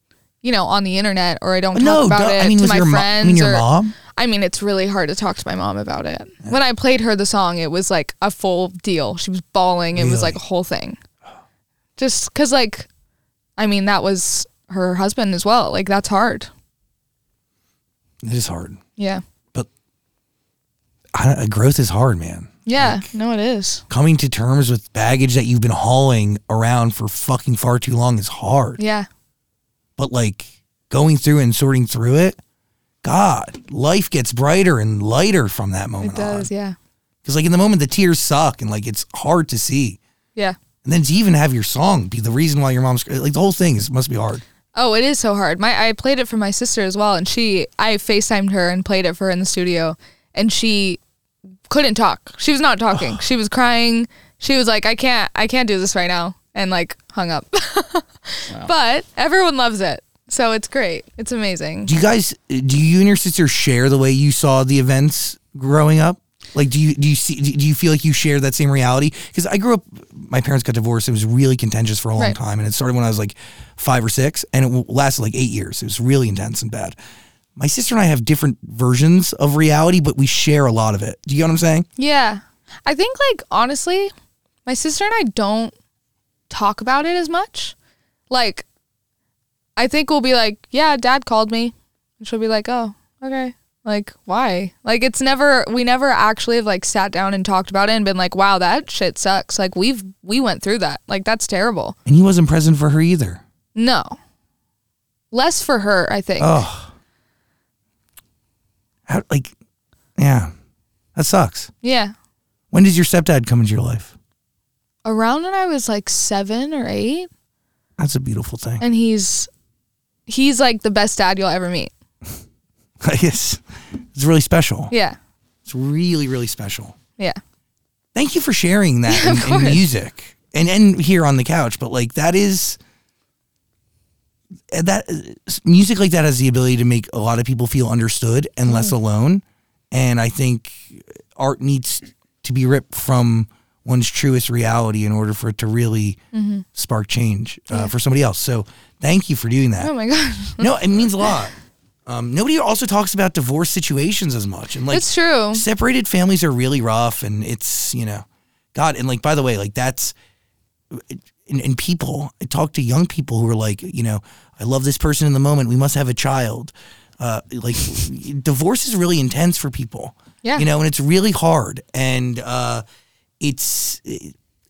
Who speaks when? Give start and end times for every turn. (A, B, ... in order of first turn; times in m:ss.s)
0:00.4-0:11.0 A
0:01.7-0:03.9 B
0:09.9-0:10.4 B
0:12.0-0:12.9 A
0:13.6-0:16.5 A
0:18.2-0:18.8 B
0:21.1-0:23.1 B
0:22.6-0:23.8 A
0:23.9-0:28.8 B
0:28.8-0:29.1 A
0:30.0-0:32.4 B
0:33.0-0:36.5 B
0:36.0-0:36.8 A
0:37.2-0:40.0 B
0:40.8-0:44.4 B
0:44.7-0:51.0 A
0:51.7-1:01.9 A
0:52.9-0:53.2 B
1:01.8-1:17.0 B
1:17.6-1:21.8 B
1:22.0-1:24.1 A
1:24.6-1:25.7 A
1:26.5-1:27.7 A
1:28.3-1:28.6 A
1:29.8-1:42.0 A
1:42.0-1:43.4 B
1:43.7-1:44.2 A
1:45.3-1:46.6 A
1:46.4-1:46.9 B
1:49.1-1:49.5 B
1:50.2-1:50.5 B
1:51.1-1:51.7 B
1:51.8-1:52.1 A
1:52.7-1:54.1 B
1:55.0-1:57.3 A
1:58.0-1:58.8 B
1:58.8-1:59.5 A
2:00.3-2:01.9 A
2:03.0-2:03.6 B
2:04.1-2:04.9 B
2:04.9-2:05.2 A
2:05.6-2:06.9 B
2:08.1-2:12.8 B
2:09.0-2:09.8 A
2:14.7-2:26.2 B
2:18.6-2:18.9 A
2:26.3-2:26.6 A
2:26.7-2:29.9 B
2:29.8-2:30.7 A
2:30.6-2:31.5 B
2:32.0-2:40.1 B
2:34.9-2:35.6 A
2:40.9-2:52.8 B
2:53.4-2:54.3 B